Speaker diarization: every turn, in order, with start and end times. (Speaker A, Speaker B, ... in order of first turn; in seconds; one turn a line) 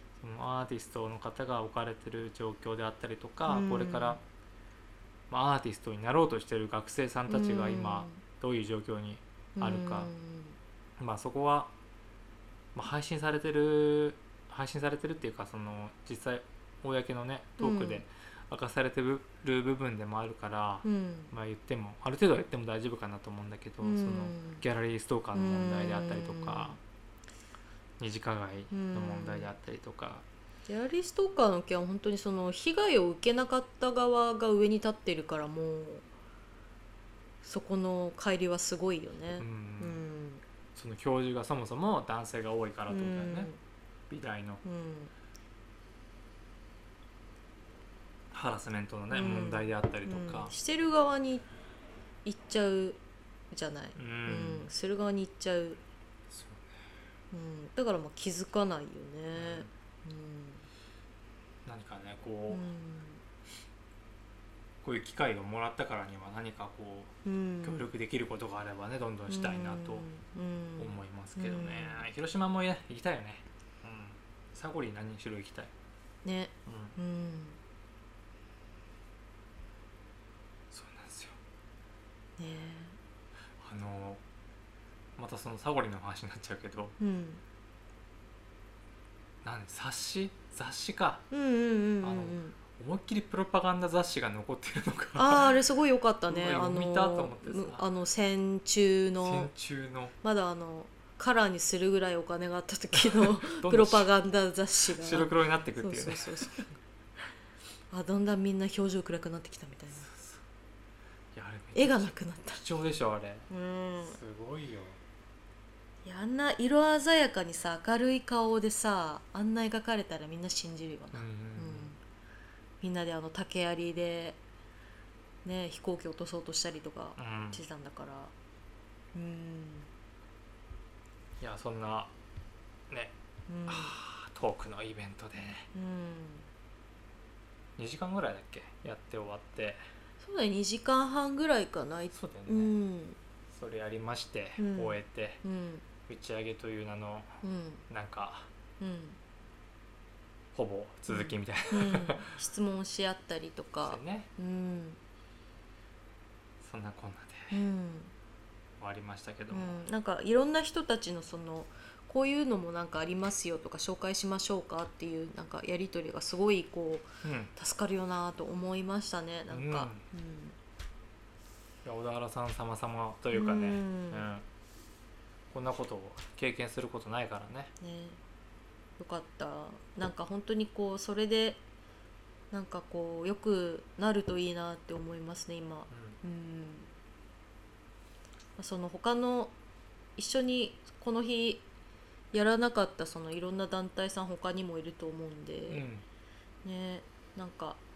Speaker A: 0.2-4.2
Speaker B: 3.5-4.2
Speaker A: 5.3-10.1
Speaker B: 7.3-8.2
Speaker B: 9.6-10.6
Speaker A: 11.0-11.7
Speaker A: 12.7-26.8
Speaker B: 17.6-18.0
Speaker B: 20.8-21.3
Speaker B: 23.8-24.6
Speaker B: 25.3-26.8
Speaker A: 28.0-30.2
Speaker B: 28.7-29.5
Speaker B: 30.7-36.0
Speaker B: 37.4-40.4
Speaker A: 39.4-40.0
Speaker A: 40.7-43.5
Speaker B: 42.9-43.6
Speaker A: 44.1-44.6
Speaker B: 44.6-45.1
Speaker A: 48.3-50.5
Speaker B: 49.1-51.5
Speaker B: 52.2-53.0
Speaker B: 53.5-55.8
Speaker A: 54.0-54.7
Speaker A: 56.3-56.7
Speaker B: 57.3-60.6
Speaker A: 59.3-59.7
Speaker A: 61.6-62.6
Speaker B: 62.5-63.2
Speaker A: 64.8-70.1
Speaker B: 67.2-67.8
Speaker B: 69.3-72.0
Speaker A: 70.8-75.7
Speaker B: 76.2-77.6
Speaker A: 76.6-77.0
Speaker A: 80.7-81.4
Speaker B: 82.4-83.0
Speaker A: 83.6-84.2
Speaker A: 85.2-87.0
Speaker B: 87.0-87.4
Speaker A: 89.4-91.2
Speaker B: 91.3-92.5
Speaker A: 92.0-95.6
Speaker B: 95.2-99.5
Speaker A: 96.3-97.8
Speaker A: 99.2-100.1
Speaker B: 100.2-106.7
Speaker A: 102.9-104.1
Speaker A: 104.9-106.7
Speaker B: 107.9-110.0
Speaker A: 109.9-110.4
Speaker A: 111.3-113.5
Speaker B: 111.7-112.6
Speaker B: 113.5-114.2
Speaker A: 114.0-115.0
Speaker B: 116.0-122.0
Speaker A: 121.1-121.9
Speaker B: 122.8-124.4
Speaker B: 125.4-128.3
Speaker A: 127.2-127.6
Speaker B: 129.1-129.9
Speaker A: 131.4-132.1
Speaker B: 133.5-133.9
Speaker A: 133.7-135.7
Speaker B: 135.7-136.4
Speaker A: 137.8-139.8
Speaker B: 140.2-143.2
Speaker A: 142.1-142.7
Speaker A: 143.5-145.4
Speaker B: 144.6-145.8
Speaker A: 146.0-148.5
Speaker B: 147.4-147.8
Speaker B: 148.8-149.2
Speaker A: 150.5-152.4
Speaker B: 151.1-155.0
Speaker A: 153.8-154.3
Speaker A: 156.6-157.6
Speaker B: 157.5-158.1
Speaker A: 158.8-159.8
Speaker B: 159.5-170.6
Speaker A: 167.2-167.5
Speaker A: 169.5-170.0
Speaker A: 171.8-174.4
Speaker B: 173.3-174.3
Speaker A: 175.5-177.7
Speaker B: 177.8-178.2
Speaker B: 179.0-181.6
Speaker B: 182.5-186.9
Speaker A: 185.9-186.2
Speaker B: 188.6-189.5
Speaker B: 190.2-191.6
Speaker B: 192.3-195.8
Speaker A: 195.7-196.0
Speaker B: 196.6-197.8